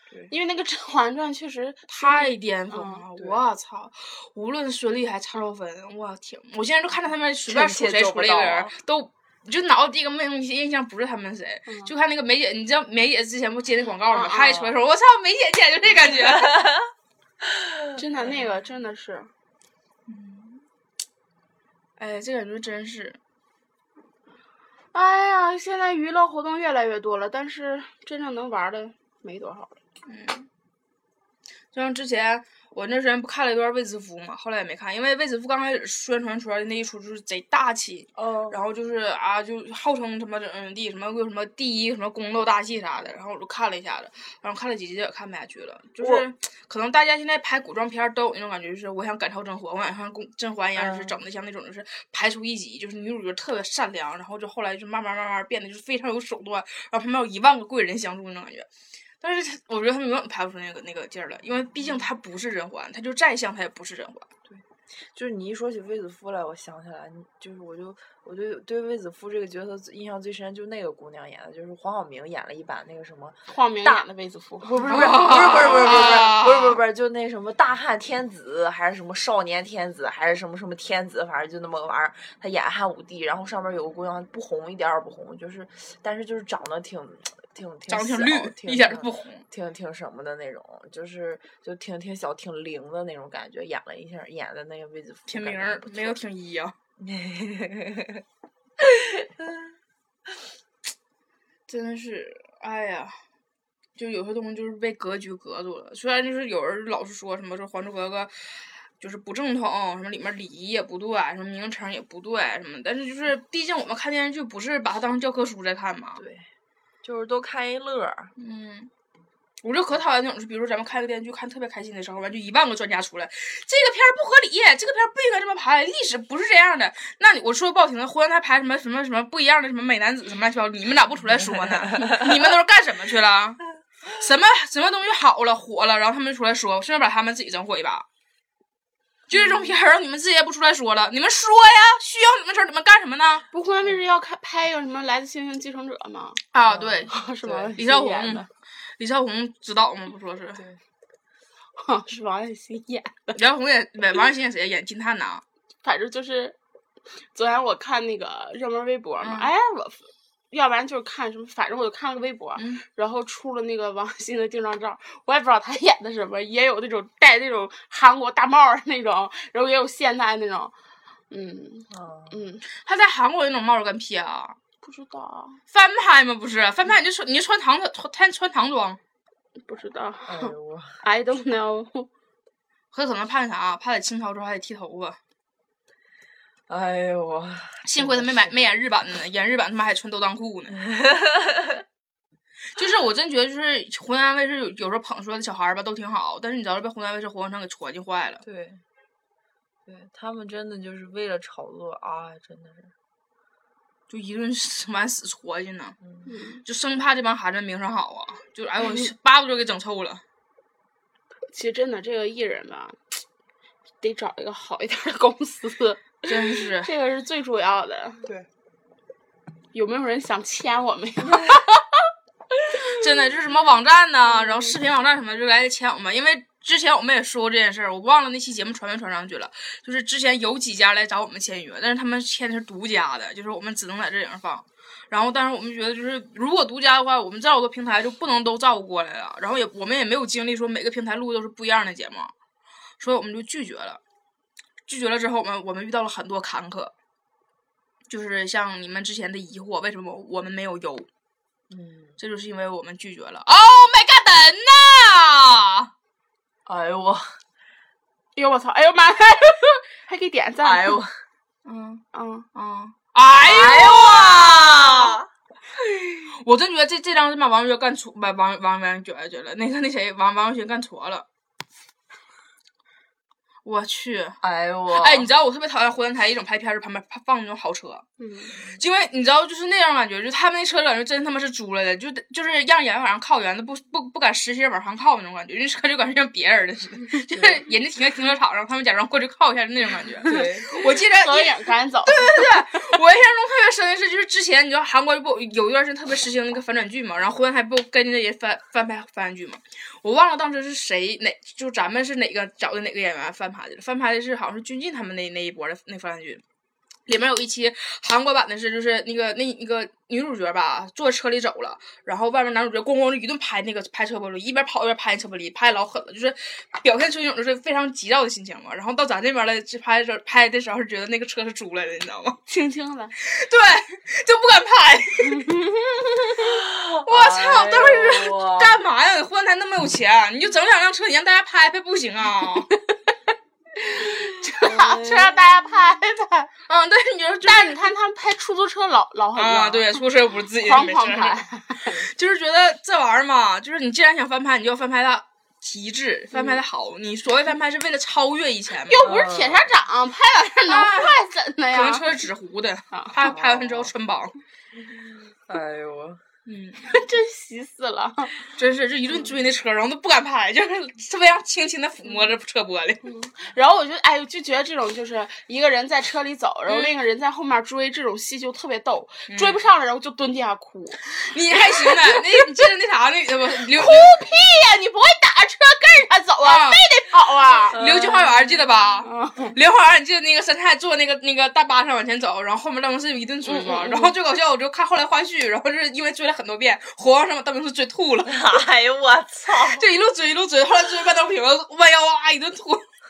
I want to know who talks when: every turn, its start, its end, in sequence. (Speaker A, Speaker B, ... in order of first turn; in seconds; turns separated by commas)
Speaker A: 0.3-3.0, Speaker B: 2.0-16.7, Speaker C: 3.2-3.4, Speaker C: 7.4-8.7, Speaker A: 14.1-14.7, Speaker C: 14.4-14.8, Speaker C: 16.2-16.9, Speaker A: 18.0-19.3, Speaker B: 20.1-20.6, Speaker B: 22.0-23.2, Speaker A: 24.9-29.8, Speaker B: 30.1-30.5, Speaker B: 31.7-58.7, Speaker C: 38.2-38.6, Speaker C: 46.0-46.3, Speaker C: 50.8-51.2, Speaker B: 59.2-64.3, Speaker C: 64.5-74.0, Speaker A: 73.5-76.2, Speaker C: 74.6-96.2, Speaker B: 74.9-76.8, Speaker B: 87.9-89.4, Speaker B: 95.3-96.7, Speaker C: 97.0-98.2, Speaker C: 98.8-99.8, Speaker B: 101.7-103.2, Speaker B: 104.0-116.2, Speaker C: 116.2-116.5, Speaker C: 117.0-118.3, Speaker B: 118.4-118.9, Speaker B: 119.6-138.1, Speaker C: 131.9-132.2, Speaker B: 139.3-143.4, Speaker A: 143.5-146.4, Speaker B: 146.5-147.1, Speaker C: 146.6-147.8, Speaker A: 147.1-148.5, Speaker B: 147.8-148.5, Speaker B: 149.0-150.6, Speaker A: 151.8-153.4, Speaker B: 153.3-155.4, Speaker A: 155.8-156.6, Speaker A: 157.3-170.7, Speaker B: 159.2-159.5, Speaker B: 162.6-162.8, Speaker A: 171.3-172.6, Speaker C: 171.9-172.4, Speaker B: 172.7-174.6, Speaker A: 174.8-175.6, Speaker B: 175.7-179.0, Speaker A: 179.7-182.1, Speaker C: 180.3-181.0, Speaker B: 182.9-185.2, Speaker C: 186.7-188.6, Speaker B: 187.8-190.8, Speaker C: 190.7-191.8, Speaker B: 192.8-198.4, Speaker C: 198.4-198.8, Speaker C: 199.9-202.9, Speaker B: 204.1-206.0, Speaker A: 206.3-206.6, Speaker B: 206.7-210.2, Speaker A: 211.5-213.0, Speaker A: 214.0-218.2, Speaker B: 216.3-216.9, Speaker A: 219.7-222.0, Speaker B: 222.8-242.3, Speaker A: 224.3-224.7, Speaker B: 243.0-244.0, Speaker B: 244.9-246.9, Speaker B: 248.1-251.1, Speaker C: 251.7-252.2, Speaker B: 252.2-255.9, Speaker C: 256.7-257.3, Speaker A: 258.4-261.0, Speaker C: 260.6-261.2, Speaker B: 261.6-265.2, Speaker A: 262.1-262.5, Speaker C: 263.4-265.3, Speaker B: 266.0-271.2, Speaker B: 273.6-278.1, Speaker C: 274.4-275.3, Speaker A: 278.2-278.6, Speaker B: 278.6-306.4, Speaker C: 287.3-287.6, Speaker C: 290.2-290.7, Speaker A: 290.7-292.7, Speaker B: 307.1-322.4, Speaker A: 322.5-323.1, Speaker B: 323.2-325.4, Speaker A: 325.2-326.6, Speaker C: 326.4-328.8, Speaker B: 327.1-332.7, Speaker A: 333.8-336.5, Speaker C: 334.6-335.4, Speaker B: 336.7-337.9, Speaker A: 337.5-340.0, Speaker B: 339.4-349.0, Speaker A: 340.6-341.9, Speaker A: 346.3-346.6, Speaker A: 348.9-352.1, Speaker C: 349.0-349.7, Speaker B: 350.7-351.1, Speaker B: 351.7-354.4, Speaker A: 352.9-353.2, Speaker C: 353.2-353.9, Speaker C: 354.8-356.2, Speaker B: 356.5-356.9, Speaker A: 356.9-358.3, Speaker B: 358.6-363.0, Speaker A: 362.1-362.3, Speaker A: 363.0-372.6, Speaker B: 369.3-369.6, Speaker B: 371.1-374.2, Speaker A: 373.7-377.8, Speaker B: 376.4-376.8, Speaker B: 377.6-388.6, Speaker C: 377.7-378.7, Speaker A: 379.0-379.6, Speaker A: 383.4-384.1, Speaker C: 388.3-389.9, Speaker B: 389.5-392.9